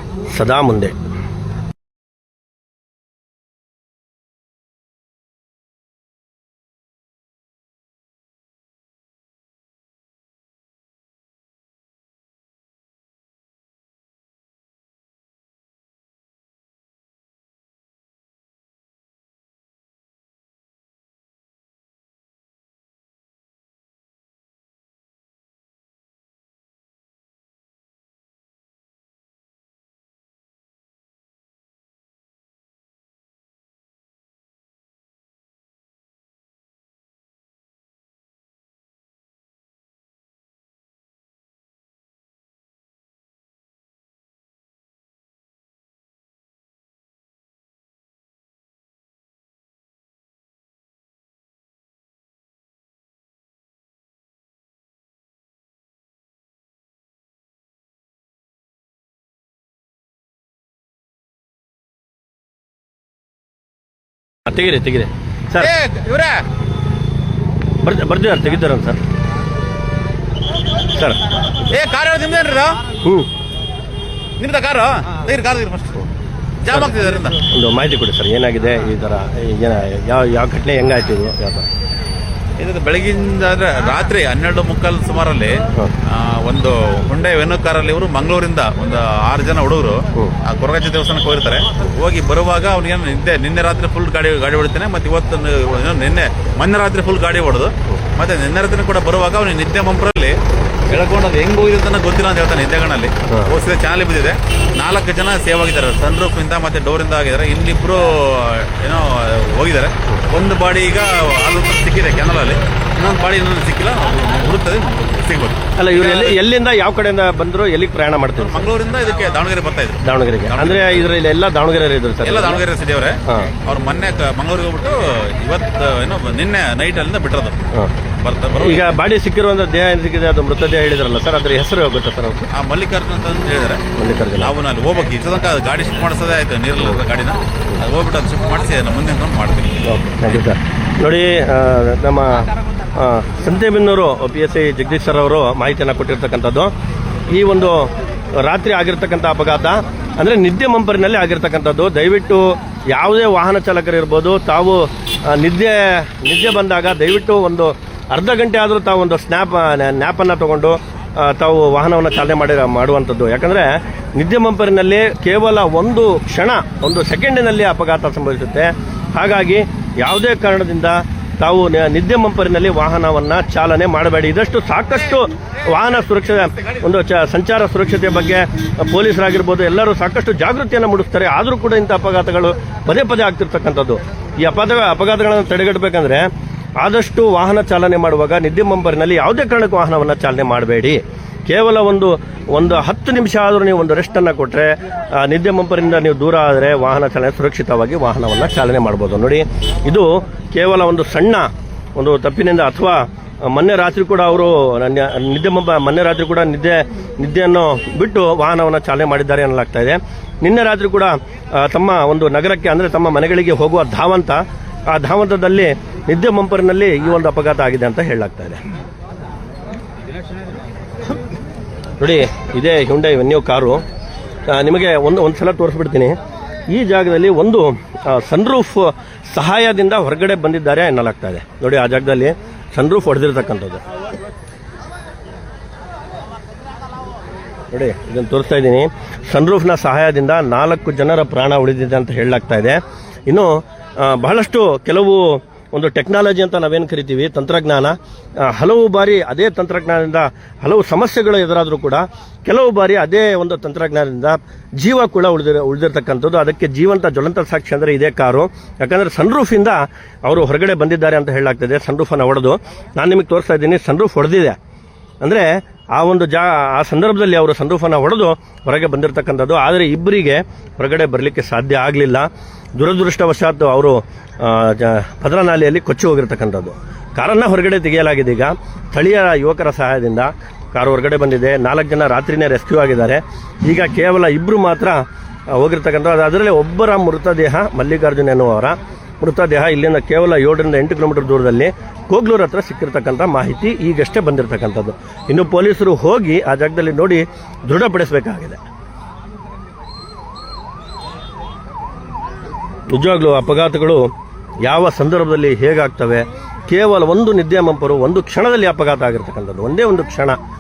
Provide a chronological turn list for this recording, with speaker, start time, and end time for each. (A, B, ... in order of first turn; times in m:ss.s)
0:00.3-0:01.0 A
1:04.5-1:05.7 A
1:05.6-1:06.4 B
1:07.8-1:09.0 A
1:10.9-1:11.2 A
1:11.7-1:12.8 B
1:13.0-1:13.3 A
1:14.4-1:16.0 B
1:16.6-1:17.4 B
1:17.5-1:21.7 A
1:22.6-1:40.4 B
1:40.9-1:56.4 B
1:55.8-1:58.7 A
1:58.4-2:01.0 B
2:00.0-2:02.6 A
2:02.2-2:07.6 B
2:08.2-2:09.0 B
2:08.6-2:12.5 A
2:12.5-2:13.8 B
2:14.0-2:14.5 A
2:14.4-2:19.9 B
2:19.8-2:26.7 A
2:27.3-3:38.6 A
3:42.0-3:43.8 A
3:44.5-3:46.2 A
3:46.7-3:53.8 A
3:57.7-4:24.6 A
4:25.2-4:58.6 A
5:02.9-5:04.1 A
5:04.6-5:10.4 A